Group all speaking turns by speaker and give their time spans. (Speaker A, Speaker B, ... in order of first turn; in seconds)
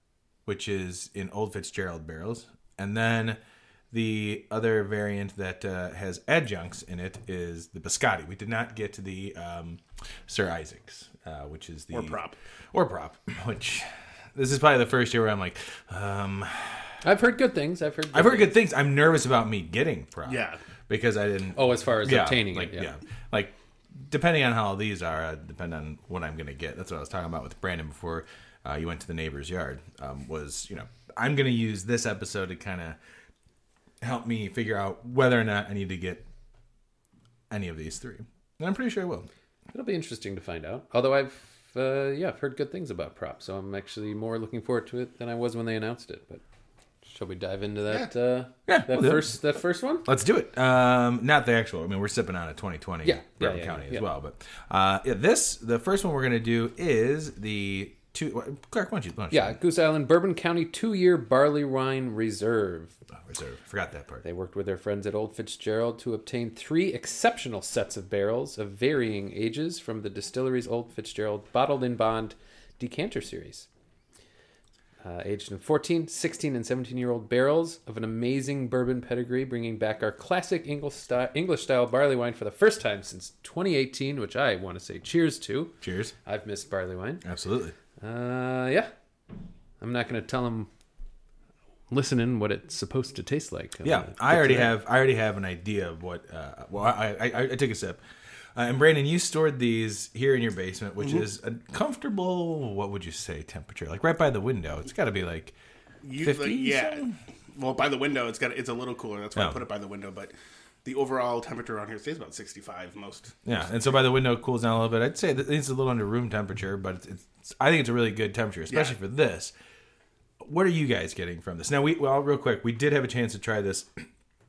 Speaker A: 0.5-3.4, 3.9-12.2, 12.7-17.0, 18.1-33.0, 34.0-36.3, 37.5-39.3, 48.7-49.4, 50.0-59.6, 63.2-64.2, 85.8-86.1, 87.2-87.8, 93.8-98.0, 98.5-105.5, 106.2-107.1, 113.5-119.5, 120.4-124.0
Speaker B: 11.9-12.4, 20.3-20.6, 106.0-110.3, 110.8-113.3, 118.7-119.0
Speaker C: 17.0-18.5, 21.6-22.9, 39.7-46.4, 47.0-50.1, 53.0-54.1, 59.3-63.0, 64.2-73.7, 75.0-87.2, 88.0-88.9, 89.8-90.7, 91.9-94.7